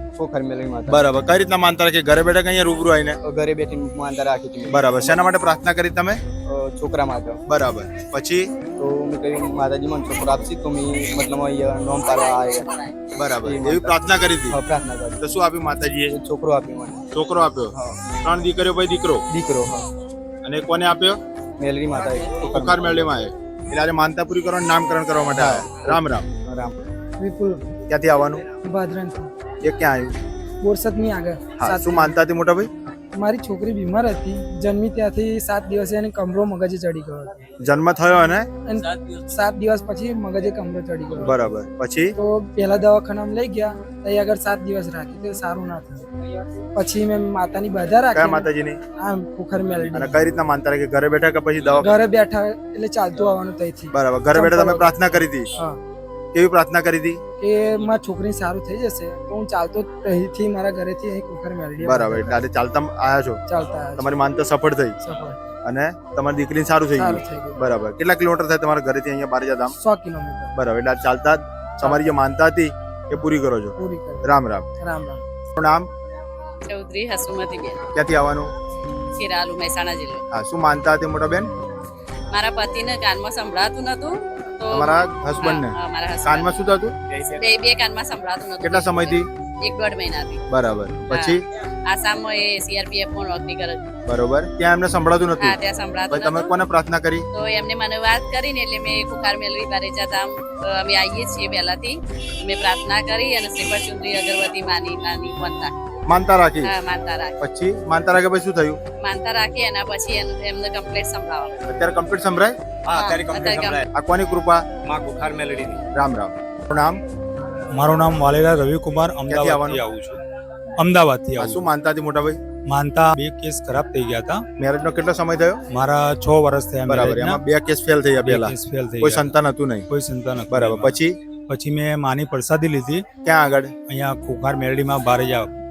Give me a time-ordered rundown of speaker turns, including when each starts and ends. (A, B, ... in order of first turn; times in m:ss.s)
0:00.2-0:01.0 A
0:00.9-0:03.2 B
0:03.2-0:05.2 A
0:04.7-0:06.2 B
0:06.5-0:07.4 A
0:07.5-0:08.5 B
0:08.7-0:12.7 A
0:13.2-0:14.6 B
0:13.4-0:15.2 A
0:15.2-0:16.1 B
0:16.1-0:17.1 A
0:17.1-0:19.2 B
0:17.7-0:18.0 A
0:19.3-0:19.9 A
0:20.4-0:21.2 B
0:21.6-0:23.2 A
0:22.4-0:26.2 B
0:25.4-0:26.8 A
0:27.2-0:27.7 C
0:27.9-0:28.4 B
0:28.6-0:29.3 C
0:29.6-0:30.2 B
0:30.6-0:32.2 C
0:31.6-0:32.7 B
0:33.2-0:37.4 C
0:37.6-0:38.5 B
0:38.7-0:41.4 C
0:41.2-0:42.1 B
0:42.2-0:46.1 C
0:46.8-0:50.2 C
0:48.1-0:48.8 B
0:49.9-0:52.0 B
0:51.8-0:55.8 C
0:53.9-0:55.5 B
0:56.3-0:57.2 B
0:57.4-1:02.4 C
1:01.8-1:03.4 B
1:03.5-1:04.2 C
1:04.0-1:05.0 B
1:05.0-1:05.4 C
1:05.6-1:09.7 B
1:07.0-1:07.7 C
1:09.8-1:10.5 C
1:10.6-1:14.7 B
1:13.8-1:14.3 C
1:14.8-1:15.2 C
1:15.6-1:15.9 B
1:16.6-1:17.8 D
1:18.0-1:18.5 B
1:19.2-1:20.2 D
1:20.3-1:21.5 B
1:22.3-1:26.6 D
1:24.7-1:25.7 B
1:26.2-1:26.9 B
1:27.3-1:30.4 D
1:28.6-1:29.3 B
1:30.5-1:31.4 B
1:31.1-1:33.8 D
1:34.1-1:35.6 B
1:35.4-1:36.5 D
1:36.1-1:37.2 B
1:37.3-1:45.7 D
1:46.1-1:46.7 B
1:46.6-1:47.4 D
1:47.4-1:48.8 B
1:49.0-1:51.5 D
1:51.7-1:52.6 B
1:52.9-1:53.9 A
1:52.9-1:53.9 D
1:53.9-1:54.6 B
1:54.8-1:55.8 A
1:55.9-1:57.0 B
1:57.7-2:00.2 E
1:59.3-1:59.8 B
2:00.8-2:01.7 E
2:01.4-2:02.4 B
2:02.7-2:04.4 E
2:04.6-2:05.6 B
2:05.7-2:07.4 E
2:06.9-2:09.9 B
2:08.2-2:09.3 E
2:09.9-2:11.0 E
2:10.5-2:11.2 B
2:11.5-2:13.1 E
2:13.2-2:13.7 B
2:13.9-2:15.6 E